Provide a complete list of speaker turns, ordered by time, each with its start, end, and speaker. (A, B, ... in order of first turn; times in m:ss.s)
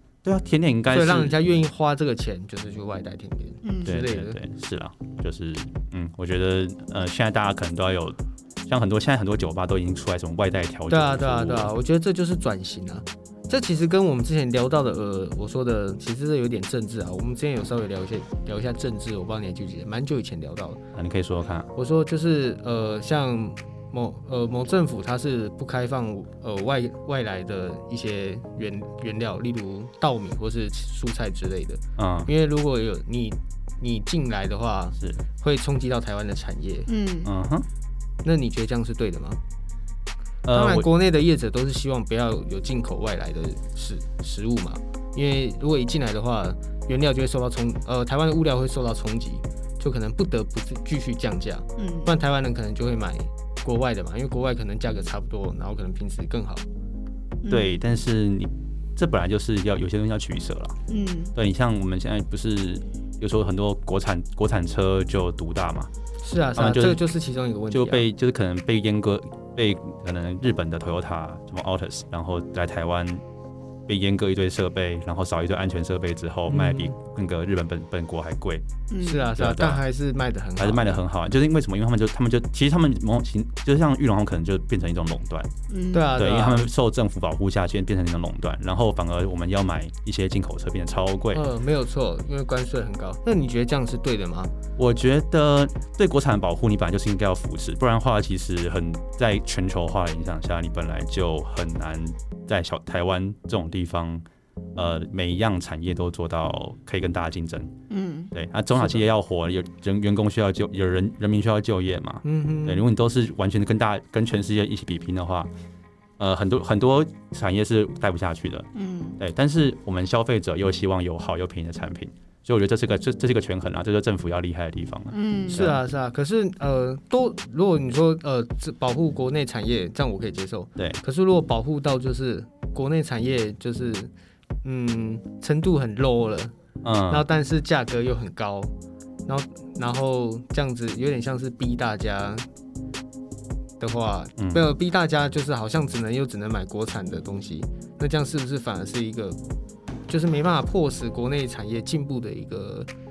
0:00.2-0:01.4 A
0:00.9-0:04.4 B
0:03.6-0:03.9 C
0:03.8-0:11.7 A
0:10.9-0:20.8 B
0:20.9-0:21.7 A
0:21.7-0:36.9 B
0:32.0-0:32.3 A
0:36.9-0:37.3 C
0:37.2-0:37.7 A
0:38.2-0:39.4 B
0:40.4-0:40.9 A
0:40.5-0:56.6 B
0:51.8-0:52.1 C
0:57.4-0:57.8 C
0:57.5-1:00.8 A
1:00.9-1:01.3 C
1:01.3-1:05.9 A
1:06.2-1:08.1 B
1:06.5-1:07.0 A
1:07.7-1:13.2 A
1:13.9-1:18.6 A
1:16.5-1:16.9 B
1:18.9-1:19.4 C
1:19.0-1:21.0 B
1:19.4-1:19.8 A
1:20.6-1:25.5 A
1:25.7-1:26.2 C
1:25.9-1:26.7 B
1:26.2-1:31.4 A
1:31.3-1:34.5 B
1:34.8-1:44.2 A
1:44.8-1:47.7 A
1:47.9-1:48.3 C
1:48.3-1:55.5 A
1:48.8-1:49.0 B
1:52.2-1:52.8 B
1:56.2-1:58.7 A
1:58.7-1:59.2 C
1:59.2-2:05.8 A
2:05.1-2:05.6 C
2:05.5-2:14.1 B
2:14.6-2:16.5 B
2:16.8-2:17.3 A
2:17.1-2:18.7 B
2:19.2-2:22.5 B
2:23.8-2:29.4 B
2:24.4-2:24.6 A
2:30.1-2:32.9 B